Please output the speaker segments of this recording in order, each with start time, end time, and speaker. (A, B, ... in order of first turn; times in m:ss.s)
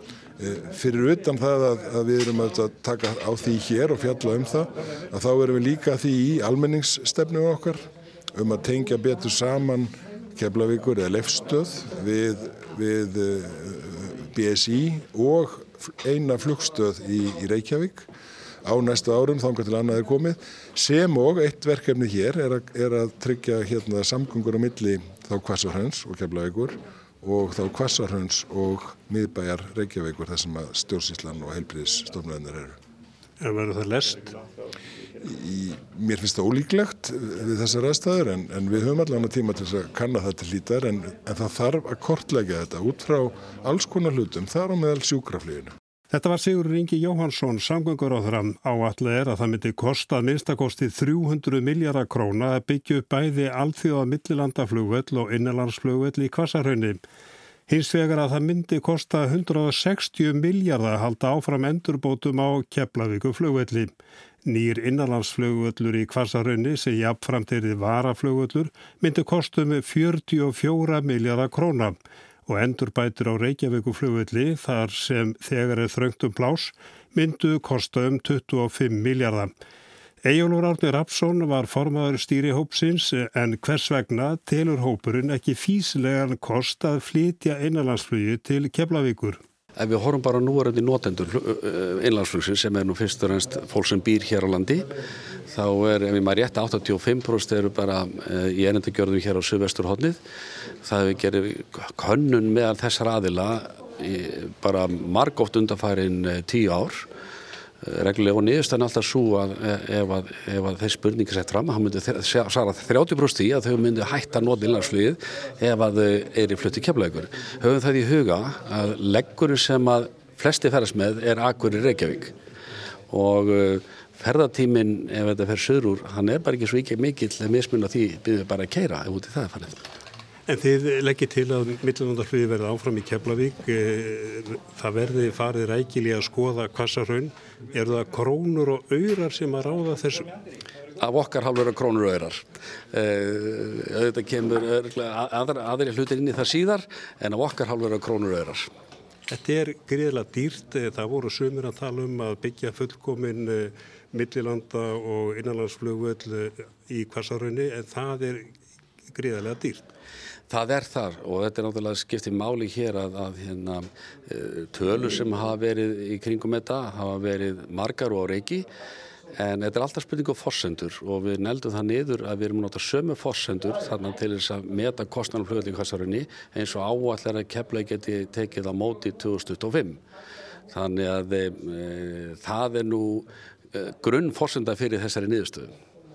0:00.4-0:18.1 A
0:18.6-0:32.8 A
0:33.4-0:34.4 B
0:35.2-0:45.7 A
0:46.1-0:57.0 B
0:57.7-1:03.9 B
1:04.4-1:12.0 B
1:12.5-1:19.5 B
1:20.2-1:29.4 B
1:29.8-1:34.9 C
1:35.5-1:40.2 C
1:40.8-1:47.1 C
1:47.8-2:02.3 C
2:03.1-2:09.9 C
2:10.5-2:20.3 B
2:21.0-2:28.7 C
2:29.3-2:38.5 B
2:39.1-2:39.9 B
2:40.5-2:48.6 C
2:49.4-3:00.0 C
3:00.7-3:05.7 C